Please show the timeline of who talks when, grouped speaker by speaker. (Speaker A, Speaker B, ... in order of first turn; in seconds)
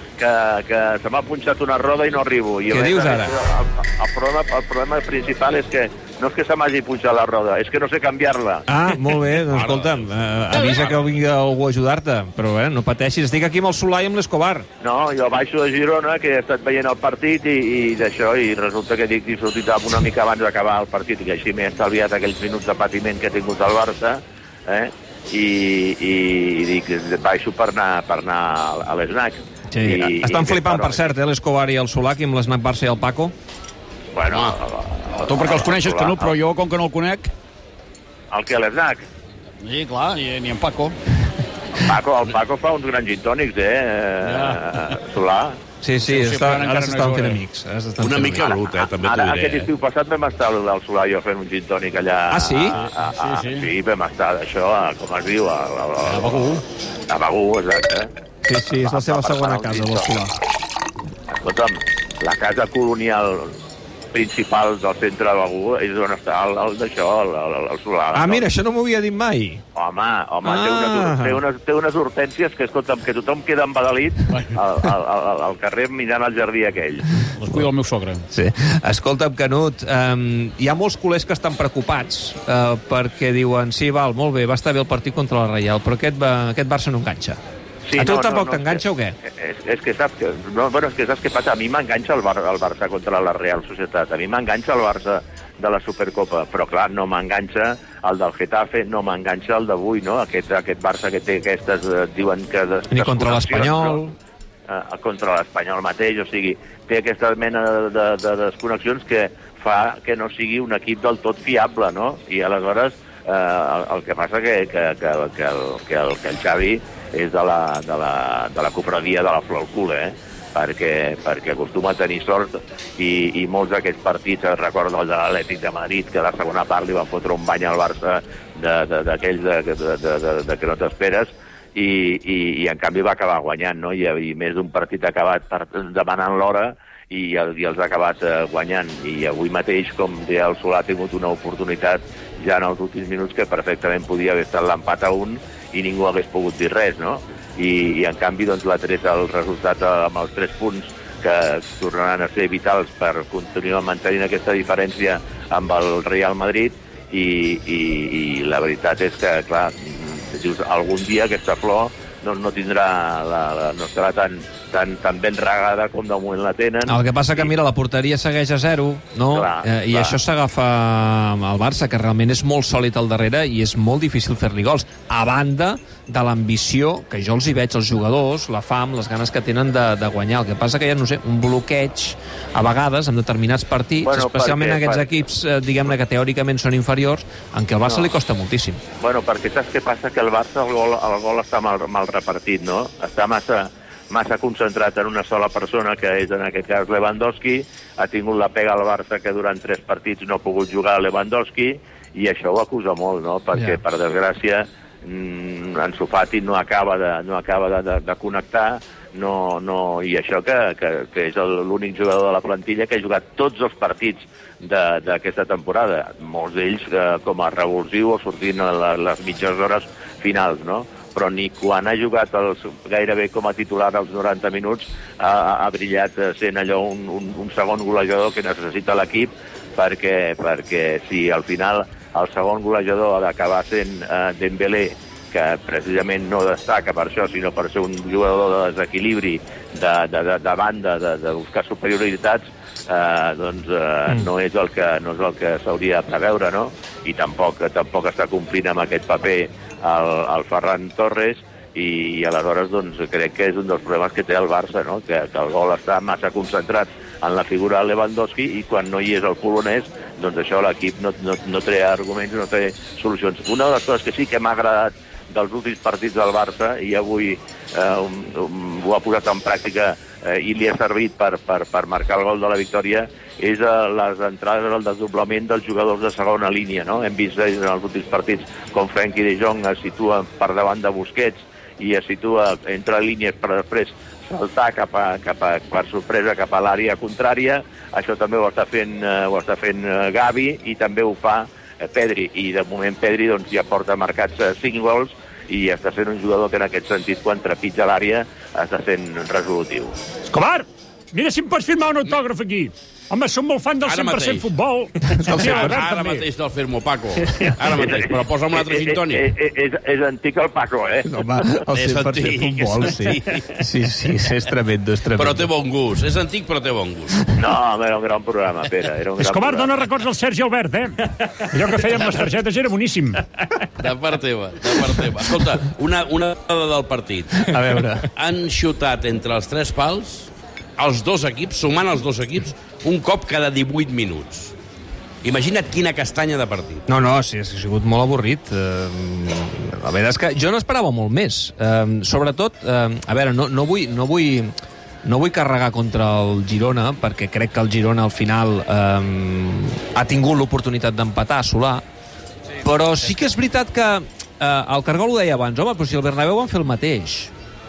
Speaker A: 0.2-8.7, 14.8-31.1, 34.1-36.3, 38.3-39.0, 41.8-45.6, 48.4-58.1, 58.8-60.4, 61.4-63.5, 64.1-68.5, 69.8-77.1, 87.8-104.0, 104.7-167.5, 169.3-170.2, 184.0-185.1, 189.0-300.0, 307.8-311.1, 317.4-319.7
Speaker B: 2.7-3.3, 8.7-14.7, 29.7-33.3, 45.8-48.5, 52.3-52.8, 58.5-60.4, 68.1-69.6, 70.4-71.4, 78.3-87.4, 88.0-89.2, 102.9-104.1, 166.9-188.8, 305.1-305.8, 311.1-315.5, 327.5-328.1, 336.9-344.5, 345.0-351.8, 352.6-357.3
Speaker C: 9.6-9.9, 48.0-49.7, 303.9-304.5, 305.3-309.3, 311.7-313.6, 315.2-317.2, 323.8-327.6, 328.1-334.6, 335.2-336.9
Speaker D: 35.2-37.3, 39.6-41.0, 44.2-44.9, 46.0-47.4, 52.7-53.7, 56.0-56.6, 77.4-78.2
Speaker E: 300.3-306.3, 319.2-323.2